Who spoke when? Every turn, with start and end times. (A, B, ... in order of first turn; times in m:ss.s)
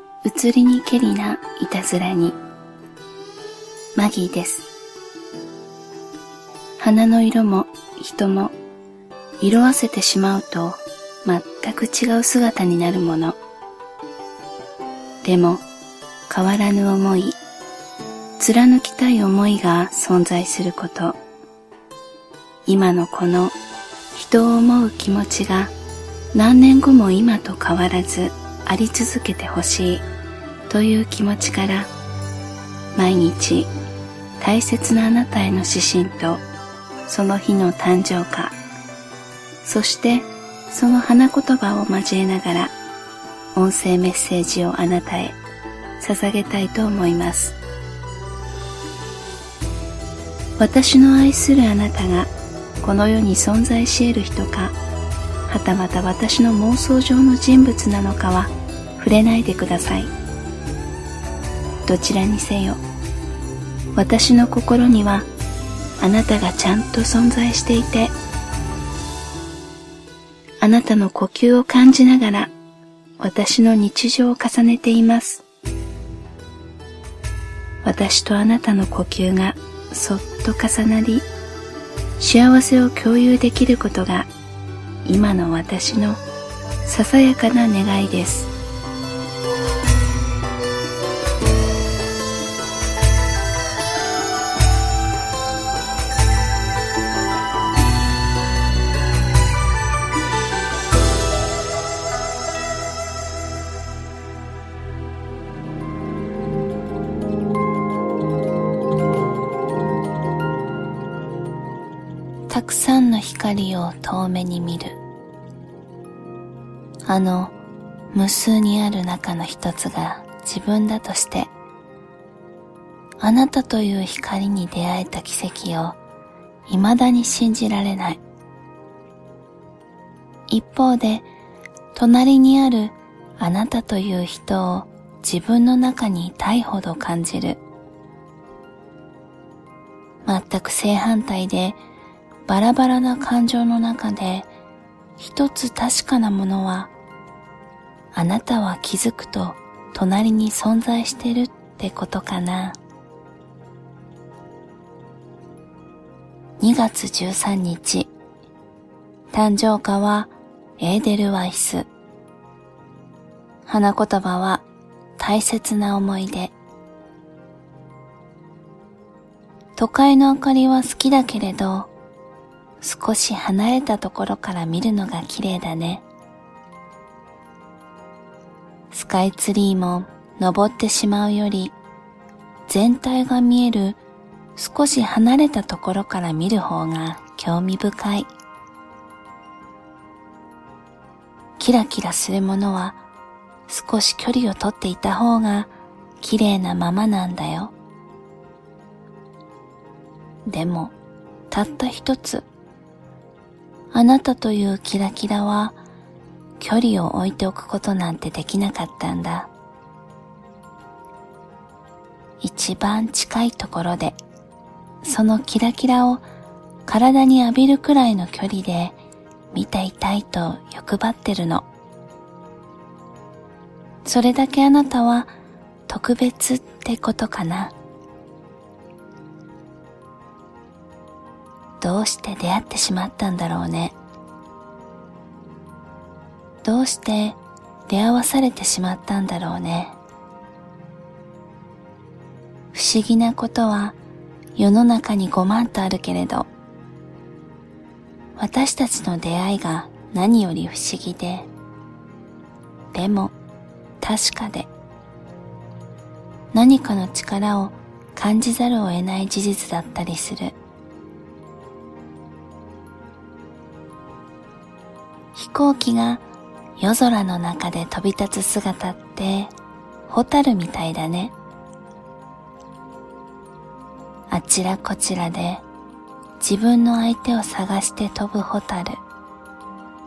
0:00.2-0:02.4 A
0:04.0-0:04.7 A
0:06.8-0:08.5 A
0:09.4-0:13.4 A
0:15.2-0:15.6 A
0:16.3-0:17.4 A
0:18.4-0:21.2 A
0:22.7-0:23.6 A
0:24.1-0:25.7 A
0:26.3-0:30.1 A
0:30.7-0:31.9 A
0:33.0-0:33.7 A
0:34.4-0:36.4 A
0:37.1-0:38.6 A
0:39.6-0:42.7 A
0:43.6-0:45.4 A
0:46.0-0:47.6 A
0:50.6-0:54.8 A
0:55.5-1:00.1 A
1:01.8-1:02.8 A
1:04.0-1:05.3 A
1:06.0-1:08.2 A
1:10.6-1:12.5 A
1:13.2-1:15.4 A
1:17.8-1:21.3 A
1:22.2-1:24.3 A
1:25.0-1:26.2 A
1:26.8-1:28.5 A
1:52.5-1:55.0 A
1:57.1-1:57.6 A
1:58.1-2:01.5 A
2:03.2-2:06.0 A
2:06.7-2:08.2 A
2:10.5-2:11.3 A
2:12.0-2:17.6 A
2:20.2-2:21.8 A
2:22.5-2:24.5 A
2:25.2-2:26.9 A
2:28.1-2:32.8 A
2:36.6-2:38.1 A
2:39.3-2:41.9 A
2:43.7-2:44.6 A
2:45.2-2:46.5 A
2:49.8-2:51.9 A
2:52.8-2:56.0 A
2:58.9-3:01.8 A
3:02.7-3:04.0 A
3:04.6-3:08.3 A
3:11.6-3:13.0 A
3:13.7-3:17.7 A
3:20.5-3:21.0 A
3:21.5-3:22.5 A
3:23.9-3:25.8 A
3:26.6-3:29.5 A
3:32.4-3:34.2 A
3:35.0-3:36.2 A
3:36.9-3:39.0 A
3:39.5-3:41.7 A
3:44.0-3:45.3 A
3:45.9-3:47.8 A
3:51.8-3:54.0 A
3:56.6-4:00.0 A
4:02.7-4:04.0 A
4:04.6-4:06.5 A
4:08.4-4:11.5 A
4:12.9-4:13.3 A
4:14.0-4:14.7 A
4:16.5-4:20.6 A
4:25.3-4:26.2 A
4:26.8-4:29.5 A
4:30.1-4:31.3 A
4:34.3-4:35.6 A
4:36.4-4:39.0 A